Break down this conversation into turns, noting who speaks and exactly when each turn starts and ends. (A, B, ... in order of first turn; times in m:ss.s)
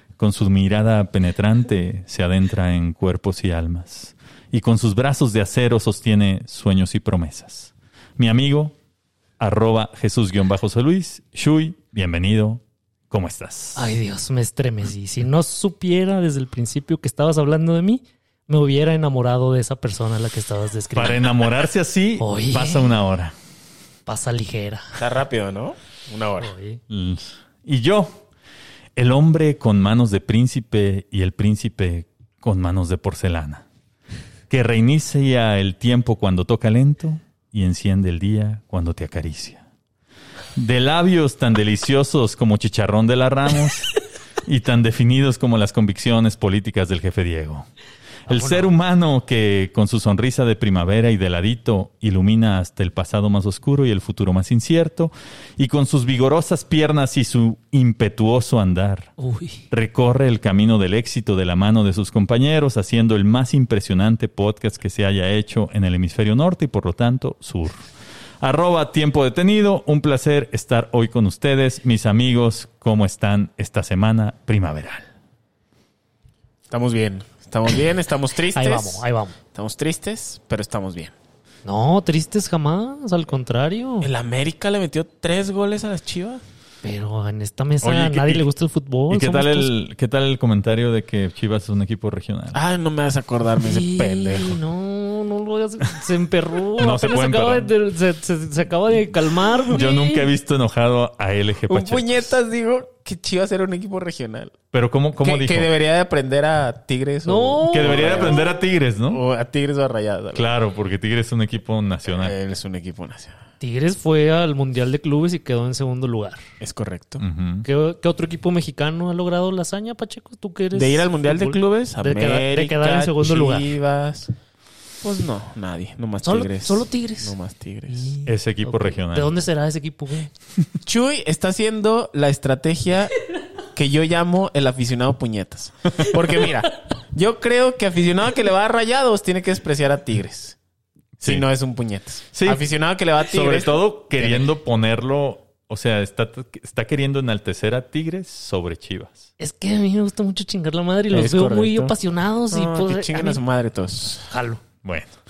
0:00.2-0:08.8 A
0:09.4-0:13.8 A
0:13.8-0:21.3 B
0:21.0-0:23.3 A
0:22.2-0:22.9 B
0:24.1-0:25.0 B
0:25.0-0:26.5 C
0:26.4-0:26.8 B
0:26.9-0:28.2 A
0:29.0-0:33.6 A
0:34.5-0:39.6 A
0:40.6-0:43.9 A
0:44.4-0:47.7 A
0:48.3-0:48.7 B
0:48.3-0:59.1 A
0:59.2-0:59.6 B
0:59.7-1:07.8 A
1:08.4-1:15.1 A
1:16.7-1:21.1 C
1:18.5-1:19.4 B
1:21.6-1:24.1 B
1:24.0-1:26.4 C
1:26.8-1:29.7 B
1:27.8-1:28.5 A
1:29.1-1:32.6 A
1:32.5-1:34.6 C
1:33.6-1:40.3 B
1:36.8-1:37.7 A
1:39.7-1:42.3 A
1:41.7-1:44.6 C
1:44.7-1:45.7 A
1:45.2-1:48.5 C
1:47.2-1:48.5 B
1:47.7-1:49.2 A
1:49.1-1:50.5 C
1:50.3-1:52.4 A
1:52.1-1:53.4 C
1:53.6-1:56.4 B
1:56.6-1:57.2 C
1:57.2-1:57.7 A
1:57.6-2:03.7 B
2:00.7-2:04.3 C
2:05.0-2:08.1 C
2:06.2-2:07.4 B
2:07.9-2:10.3 B
2:08.2-2:09.3 A
2:10.8-2:13.1 C
2:13.7-2:20.6 C
2:21.2-2:21.5 A
2:21.2-2:24.5 C
2:22.3-2:22.6 A
2:23.2-2:29.3 A
2:29.4-2:33.4 B
2:31.1-2:32.0 C
2:32.5-2:34.3 C
2:34.3-2:34.6 B
2:34.8-2:35.2 A